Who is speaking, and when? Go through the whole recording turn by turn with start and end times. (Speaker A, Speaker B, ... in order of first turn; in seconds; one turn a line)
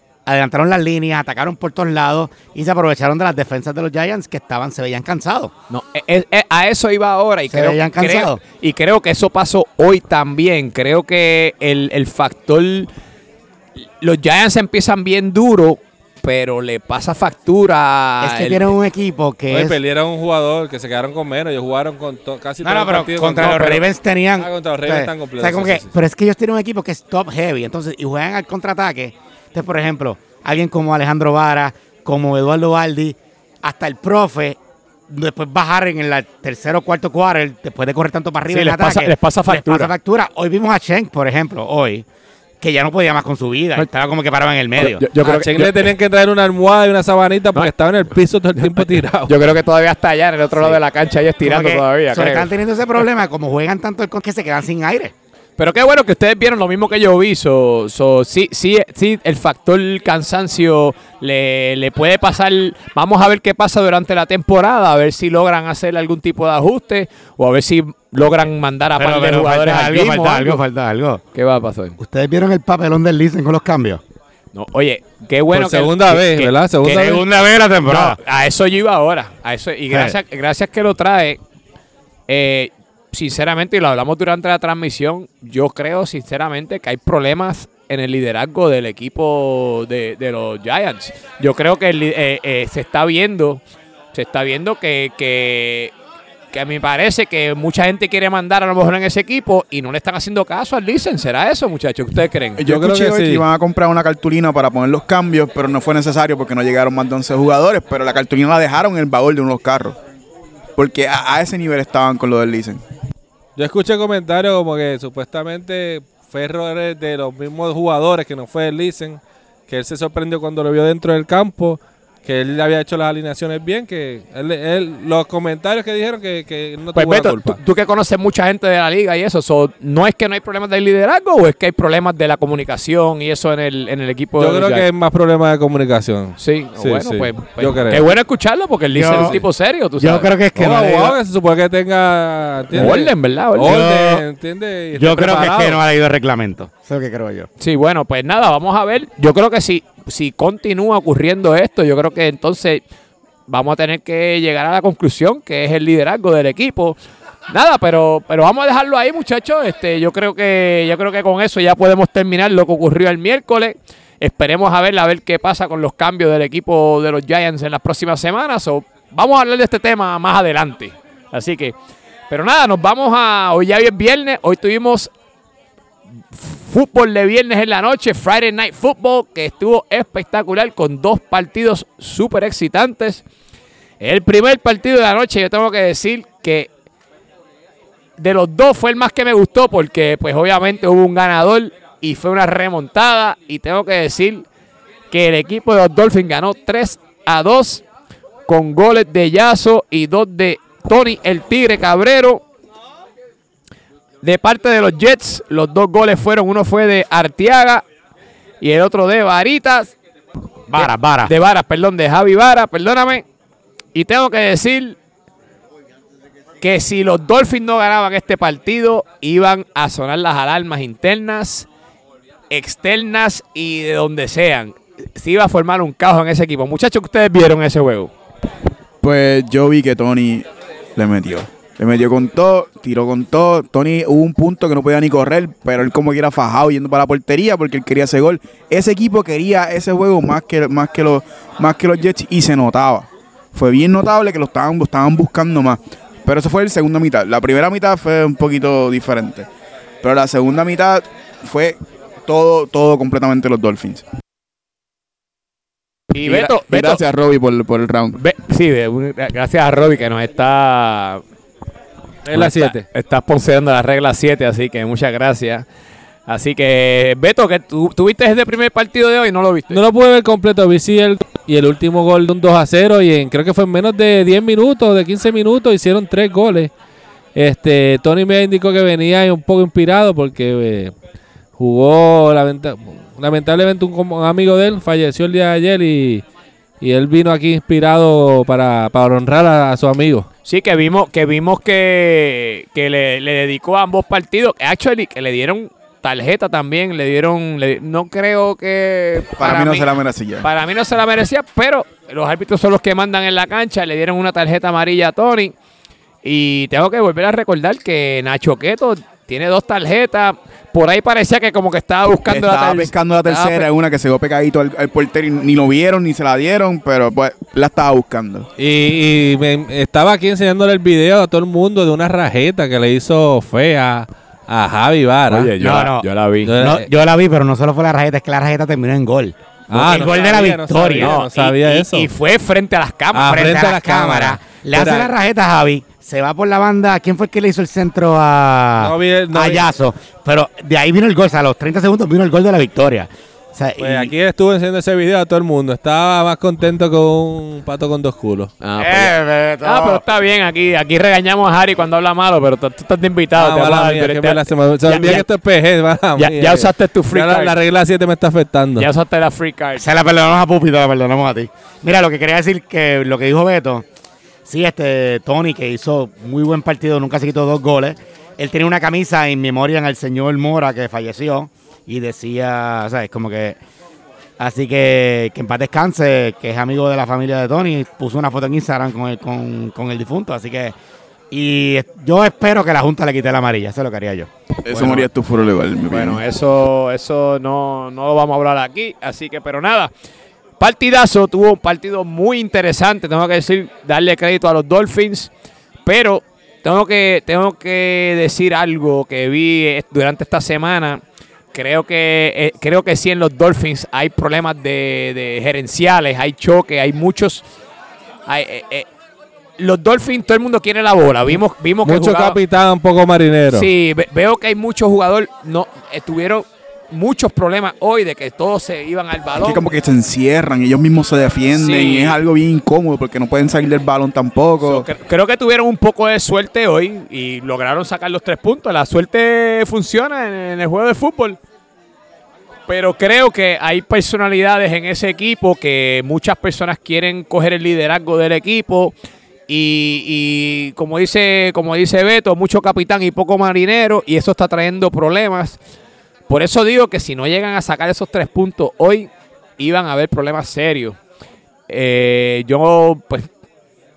Speaker A: 0.2-5.5
Speaker B: 5.7-12.9
Speaker A: 7.5-8.4
Speaker B: 14.0-18.7
Speaker A: 18.2-19.8
Speaker C: 19.5-23.8
Speaker A: 22.6-34.6
Speaker C: 24.4-25.9
Speaker A: 35.1-42.0
Speaker B: 38.5-39.9
Speaker A: 42.6-45.0
Speaker B: 44.8-45.9
Speaker C: 45.2-49.3
Speaker B: 48.5-52.5
Speaker A: 51.4-55.1
Speaker B: 55.6-70.6
Speaker A: 69.0-71.2
Speaker B: 71.3-72.0
Speaker A: 72.0-74.0
Speaker B: 74.5-77.2
Speaker C: 75.5-77.2
Speaker A: 76.8-78.2
Speaker B: 77.8-81.4
Speaker A: 79.9-80.2
Speaker B: 82.3-93.6
Speaker B: 94.1-95.9
Speaker B: 96.5-102.6
Speaker D: 102.6-110.0
Speaker C: 102.6-103.4
Speaker D: 110.8-112.8
Speaker C: 113.5-127.6
Speaker B: 126.9-134.8
Speaker C: 134.4-138.1
Speaker B: 136.4-140.3
Speaker A: 138.9-139.4
Speaker A: 140.0-141.2
Speaker C: 140.6-145.8
Speaker B: 142.7-143.8
Speaker A: 143.6-144.2
Speaker A: 144.9-147.5
Speaker B: 147.6-152.8
Speaker B: 153.5-157.0
Speaker B: 157.5-171.7
Speaker B: 172.3-175.1
Speaker B: 176.3-183.2
Speaker B: 184.0-186.7
Speaker B: 188.2-194.5
Speaker B: 195.1-197.8
Speaker B: 198.5-202.4
Speaker B: 204.2-207.8
Speaker B: 208.6-209.9
Speaker A: 210.7-211.3
Speaker B: 210.7-213.2
Speaker B: 213.9-215.0
Speaker B: 216.6-221.7
Speaker B: 222.5-228.1
Speaker D: 229.0-230.4
Speaker D: 230.9-249.5
Speaker D: 250.0-254.0
Speaker B: 256.1-257.0
Speaker D: 256.2-258.2
Speaker B: 258.1-261.2
Speaker C: 262.2-262.8
Speaker B: 262.3-265.6
Speaker B: 266.3-269.8
Speaker C: 269.7-276.7
Speaker C: 277.3-280.9
Speaker C: 281.6-286.2
Speaker C: 286.8-290.3
Speaker B: 290.4-305.5
Speaker D: 299.4-300.5
Speaker B: 306.2-313.7
Speaker D: 312.3-318.5
Speaker C: 318.6-325.5
Speaker B: 325.3-326.5
Speaker A: 325.6-326.1
Speaker C: 326.4-326.9
Speaker A: 326.6-331.1
Speaker C: 329.7-332.1
Speaker B: 330.9-333.6
Speaker C: 333.1-335.1
Speaker A: 333.2-344.1
Speaker C: 338.8-339.7
Speaker C: 343.8-348.5
Speaker B: 348.6-355.2
Speaker A: 348.8-350.0
Speaker C: 353.4-358.9
Speaker B: 356.1-357.5
Speaker B: 358.8-359.8
Speaker A: 359.8-363.8
Speaker A: 364.4-373.6
Speaker A: 374.4-380.7
Speaker A: 381.3-384.3
Speaker D: 384.6-386.2
Speaker B: 384.7-385.1
Speaker B: 385.9-389.9
Speaker B: 390.6-395.3
Speaker B: 395.9-401.0
Speaker B: 401.5-407.4
Speaker B: 408.3-408.9
Speaker B: 409.6-412.4
Speaker C: 411.9-413.7
Speaker B: 413.5-419.6
Speaker D: 419.4-424.9
Speaker B: 421.5-422.2
Speaker B: 424.6-431.4
Speaker B: 432.7-438.9
Speaker B: 439.5-445.6
Speaker B: 446.3-451.0
Speaker B: 451.7-453.3